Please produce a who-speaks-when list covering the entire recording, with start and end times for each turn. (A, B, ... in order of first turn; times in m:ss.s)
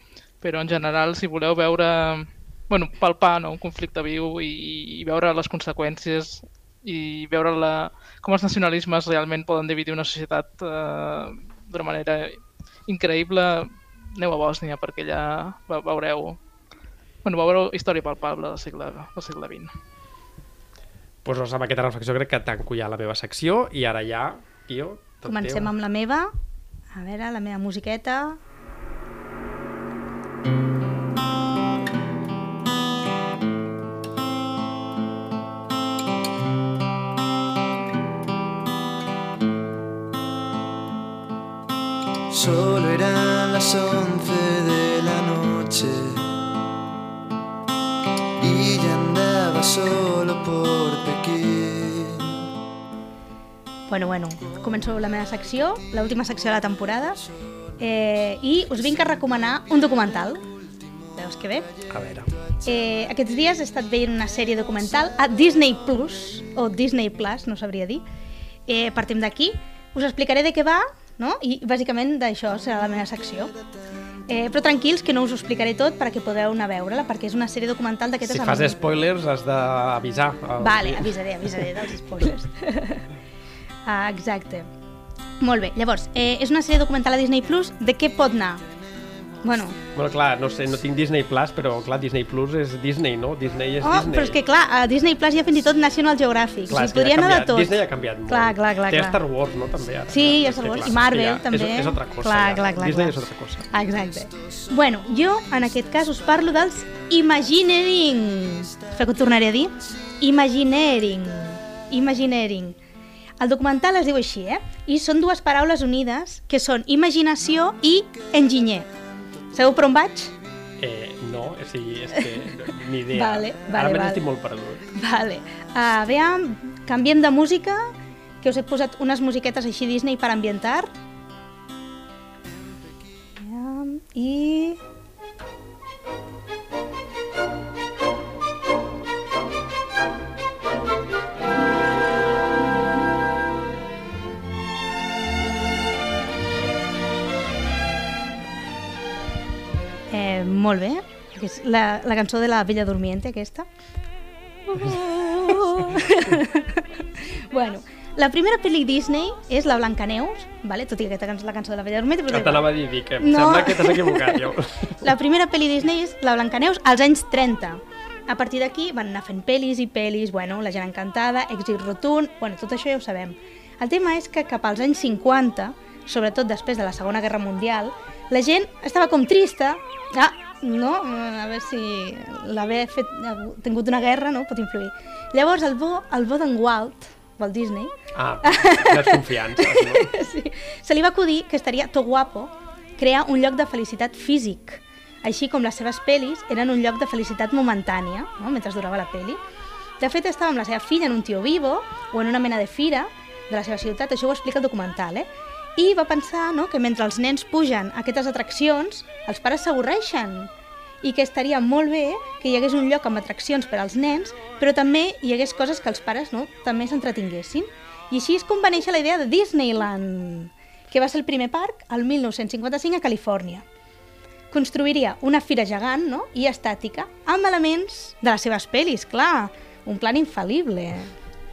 0:00.4-0:16.4 A
0:17.2-0:19.7 A
0:21.2-0:25.7 B
0:25.2-0:26.3 C
0:26.9-0:28.4 C
0:42.3-0:46.2 D
0:48.4-0:52.3 D
0:53.9-0:57.2 C
0:57.8-1:00.4 C
1:01.2-1:01.7 C
1:01.9-1:02.3 B
1:02.6-1:08.0 C
1:08.7-1:13.5 C
1:14.3-1:18.8 C
1:18.3-1:21.7 B
1:20.6-1:23.0 C
1:23.9-1:24.7 C
1:25.4-1:28.6 C
1:29.4-1:29.8 C
1:29.9-1:34.4 B
1:33.8-1:37.8 C
1:36.7-1:43.7 B
1:38.3-1:39.2 C
1:40.1-1:52.8 C
1:53.4-1:58.9 C
1:59.5-2:00.3 C
2:00.8-2:04.9 B
2:02.1-2:02.5 C
2:03.1-2:04.2 C
2:05.0-2:07.9 C
2:08.4-2:10.9 C
2:13.4-2:14.8 C
2:30.1-2:33.7 C
2:34.7-2:36.8 C
2:37.5-3:07.9 C
2:42.3-2:45.0 B
3:08.2-3:10.1 B
3:08.4-3:19.4 C
3:20.0-3:30.5 C
3:31.0-3:43.6 C
3:44.5-3:51.1 C